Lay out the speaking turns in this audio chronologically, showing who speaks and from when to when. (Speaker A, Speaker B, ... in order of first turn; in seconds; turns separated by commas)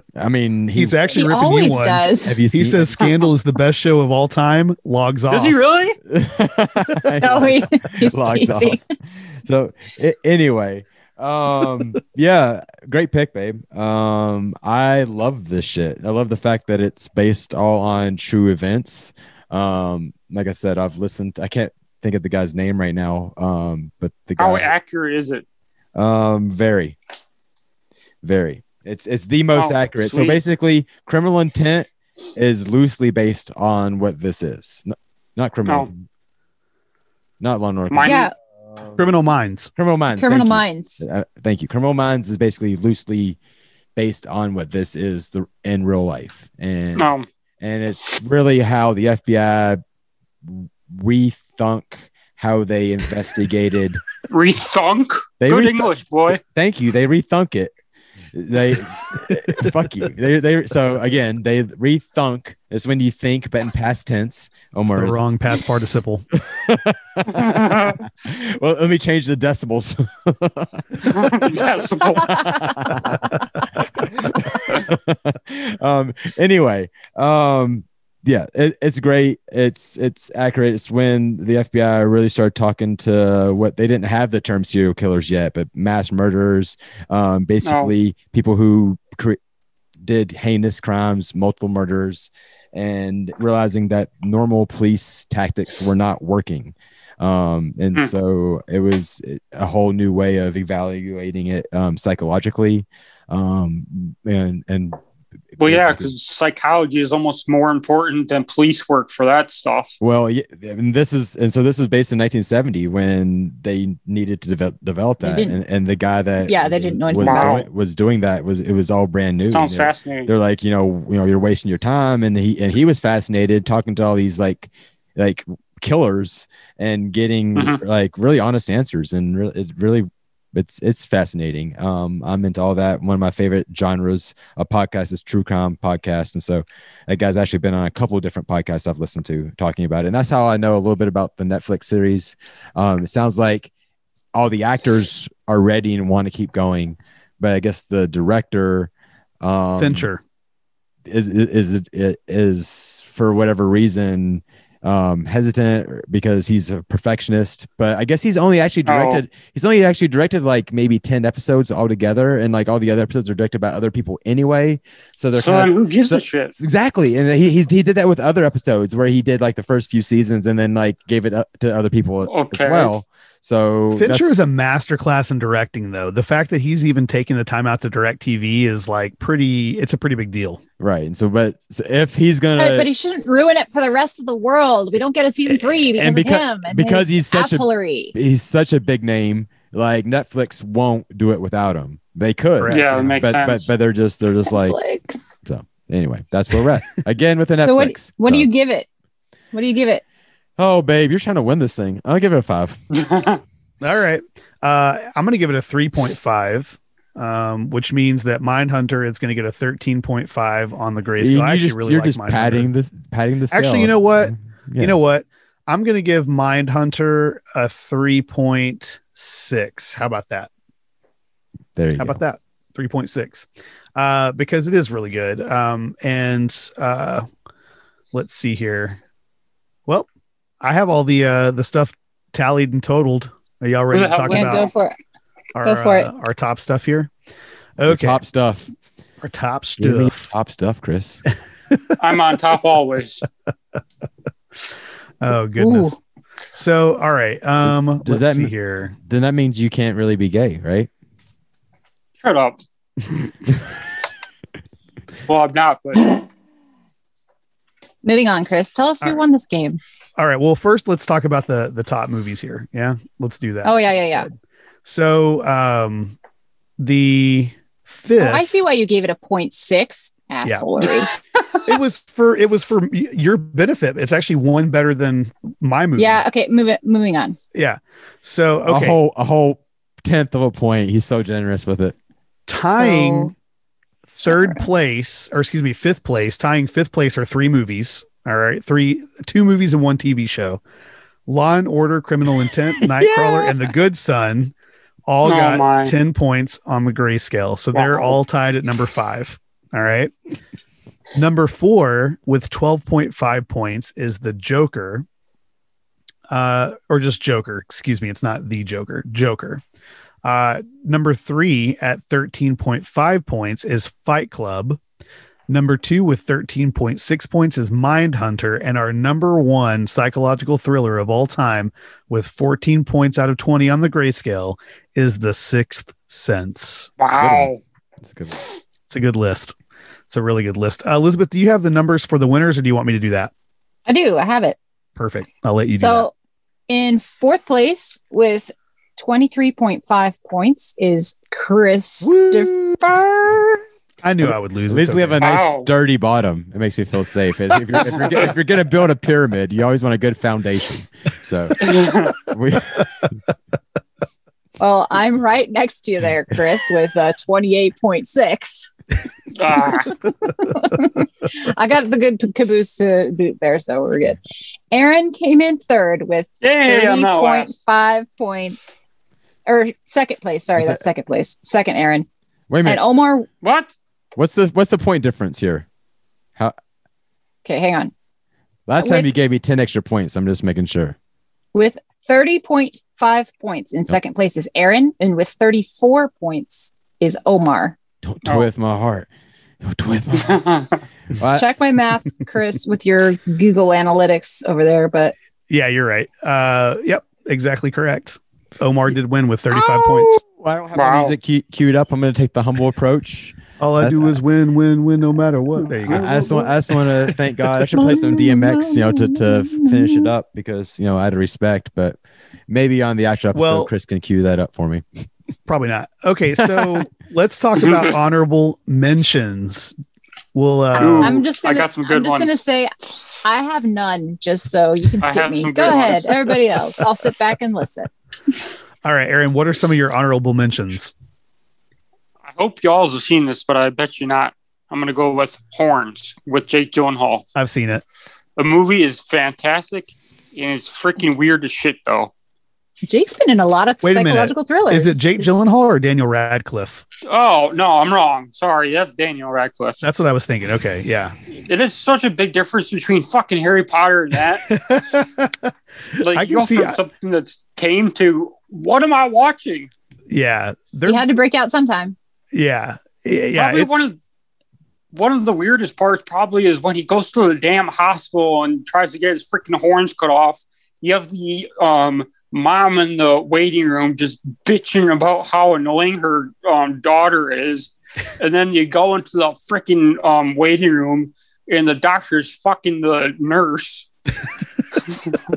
Speaker A: 0.1-1.0, Speaker B: 0.8-5.6, Speaker C: 1.1-2.4, Speaker A: 2.2-3.1, Speaker D: 5.3-6.0, Speaker A: 6.0-24.7, Speaker C: 7.2-8.8, Speaker D: 24.4-25.4, Speaker A: 25.9-27.0, Speaker A: 28.2-36.0, Speaker D: 29.6-30.4, Speaker A: 37.4-39.0, Speaker D: 37.9-38.2, Speaker C: 38.0-38.3, Speaker B: 39.0-39.7, Speaker A: 39.8-43.4, Speaker C: 40.1-41.1, Speaker A: 44.0-49.8, Speaker D: 47.0-47.3, Speaker A: 50.5-54.0, Speaker D: 54.3-56.4, Speaker A: 55.4-55.9, Speaker A: 56.5-57.7, Speaker A: 58.3-65.2, Speaker B: 64.9-66.3, Speaker A: 66.4-89.4, Speaker D: 67.3-68.0, Speaker D: 71.0-72.7, Speaker D: 87.6-87.9, Speaker A: 90.0-105.0, Speaker A: 105.5-106.1, Speaker D: 105.6-110.0, Speaker A: 110.0-143.7, Speaker C: 115.2-115.6, Speaker C: 116.4-117.6, Speaker D: 117.2-117.7, Speaker D: 119.5-120.3, Speaker D: 127.5-127.8, Speaker A: 144.3-148.9, Speaker A: 149.4-150.1, Speaker B: 149.8-150.2, Speaker A: 151.1-174.3, Speaker D: 158.9-159.2, Speaker D: 165.3-166.6, Speaker D: 172.3-172.9, Speaker B: 173.9-180.6, Speaker A: 180.8-182.9, Speaker C: 182.6-188.1, Speaker A: 185.9-194.8, Speaker B: 192.6-193.2, Speaker D: 192.7-193.7, Speaker C: 194.5-195.4, Speaker A: 195.4-198.5, Speaker C: 197.6-198.9, Speaker C: 199.5-200.0, Speaker A: 200.6-202.8, Speaker D: 202.9-203.4, Speaker B: 203.8-212.7, Speaker A: 211.2-215.0, Speaker B: 213.5-220.5, Speaker A: 221.8-222.2, Speaker B: 222.0-227.3, Speaker B: 228.1-229.0, Speaker B: 230.6-234.7, Speaker D: 233.9-234.7, Speaker C: 234.3-234.9, Speaker B: 235.6-237.1, Speaker C: 235.6-236.1, Speaker B: 237.8-238.2, Speaker A: 237.9-238.7, Speaker B: 239.2-240.3, Speaker A: 239.8-241.2, Speaker D: 242.0-243.2, Speaker B: 245.2-246.0, Speaker C: 245.6-246.0, Speaker B: 246.5-249.0, Speaker A: 247.7-248.5, Speaker A: 249.1-250.9, Speaker D: 252.2-252.6, Speaker D: 255.3-256.1, Speaker C: 258.0-259.8, Speaker B: 260.2-264.3, Speaker C: 263.6-264.3, Speaker B: 264.9-266.2, Speaker B: 266.8-268.5, Speaker C: 268.2-271.1, Speaker B: 270.4-270.7, Speaker B: 271.6-276.2, Speaker C: 276.0-277.4, Speaker B: 277.5-279.0, Speaker A: 278.6-281.9, Speaker B: 282.5-283.3, Speaker C: 282.6-283.3, Speaker B: 284.1-290.6, Speaker C: 284.2-284.7, Speaker B: 291.3-294.5, Speaker A: 292.9-293.6, Speaker B: 295.1-300.1, Speaker D: 295.2-295.9, Speaker D: 297.7-298.1, Speaker B: 301.1-305.1, Speaker B: 306.3-309.6, Speaker B: 310.2-314.8, Speaker B: 315.5-326.9, Speaker D: 327.0-327.6, Speaker A: 327.1-328.5, Speaker B: 328.9-329.5, Speaker B: 330.1-333.3, Speaker C: 333.9-334.6, Speaker B: 335.0-336.1, Speaker C: 335.8-336.1, Speaker C: 336.7-343.6, Speaker A: 342.0-342.8, Speaker B: 344.0-345.2, Speaker A: 344.2-353.2, Speaker D: 345.2-345.7, Speaker D: 351.6-352.2, Speaker C: 354.6-358.7, Speaker D: 359.4-359.9, Speaker C: 359.9-364.2, Speaker C: 364.7-368.8, Speaker D: 366.4-367.6, Speaker C: 369.5-372.1, Speaker A: 370.6-370.9, Speaker A: 372.5-372.8, Speaker C: 372.6-373.3, Speaker D: 373.4-373.7, Speaker A: 374.2-375.7, Speaker C: 377.4-377.9, Speaker A: 378.7-381.0, Speaker C: 378.8-379.1, Speaker C: 381.5-387.8, Speaker A: 388.0-389.1, Speaker A: 389.6-390.5, Speaker D: 390.2-390.8, Speaker A: 391.1-391.5, Speaker C: 391.4-395.1, Speaker B: 395.5-400.2, Speaker A: 399.5-404.2, Speaker D: 400.7-401.2, Speaker B: 403.6-406.2, Speaker A: 405.8-412.0, Speaker D: 405.9-406.4, Speaker C: 407.7-410.1, Speaker A: 412.5-414.9, Speaker B: 413.3-413.7, Speaker B: 415.5-419.7, Speaker A: 416.5-416.8, Speaker B: 420.4-421.2, Speaker D: 420.8-422.4, Speaker C: 421.0-422.7, Speaker C: 423.2-427.9, Speaker D: 425.0-426.3, Speaker B: 428.8-430.9, Speaker D: 432.3-437.3, Speaker B: 437.4-437.8, Speaker D: 438.4-442.1, Speaker C: 442.9-445.0, Speaker B: 443.8-446.9, Speaker D: 447.1-449.9, Speaker B: 449.8-451.1, Speaker D: 451.3-454.6, Speaker B: 454.5-456.8, Speaker D: 456.0-459.7, Speaker B: 460.1-461.0, Speaker C: 460.9-462.0, Speaker B: 462.3-463.8, Speaker D: 463.4-464.0, Speaker D: 464.9-483.9, Speaker D: 484.9-485.2